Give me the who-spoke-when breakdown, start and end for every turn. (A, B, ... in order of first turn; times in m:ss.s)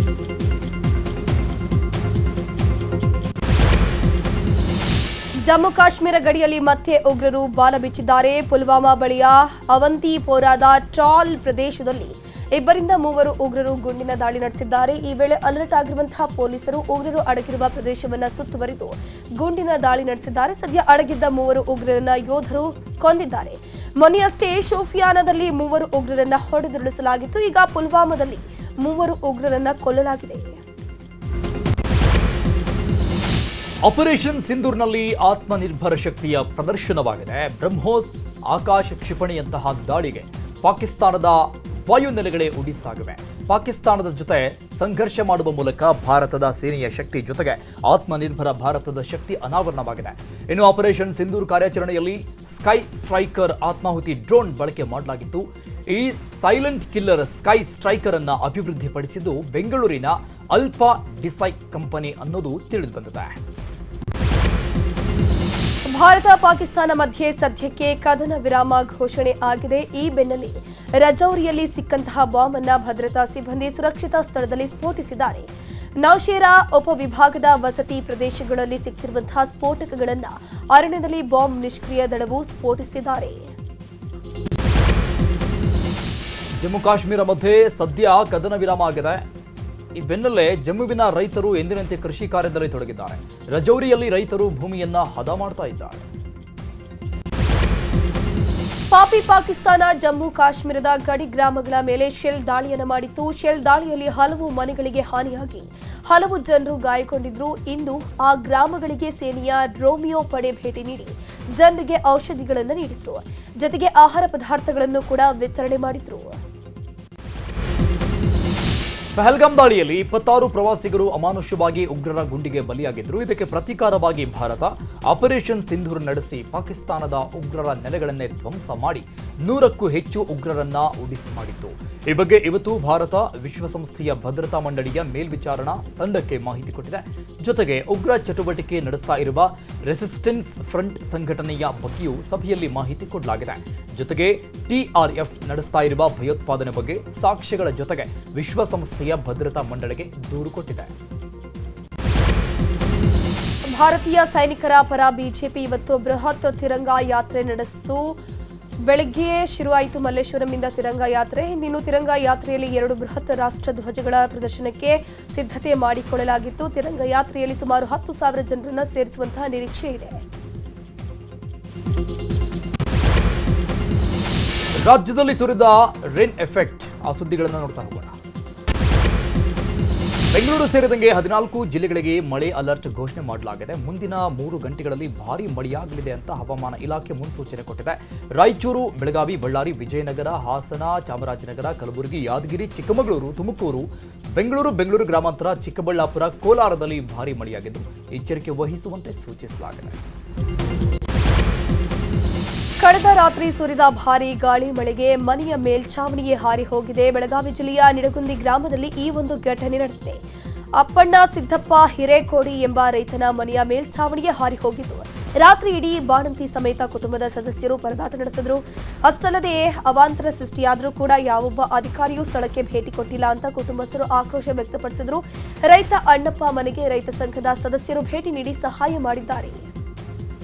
0:05.5-0:30.6 A
0:33.8-1:03.4 B
1:05.9-1:23.5 A
1:26.6-1:29.2 B
1:30.0-1:36.0 B
1:38.9-1:56.4 A
1:59.2-2:30.9 B
2:33.7-2:38.2 A
2:38.8-2:50.2 A
2:54.8-2:58.2 B
3:00.3-3:20.0 B
3:22.8-3:30.2 A
3:30.8-3:49.7 A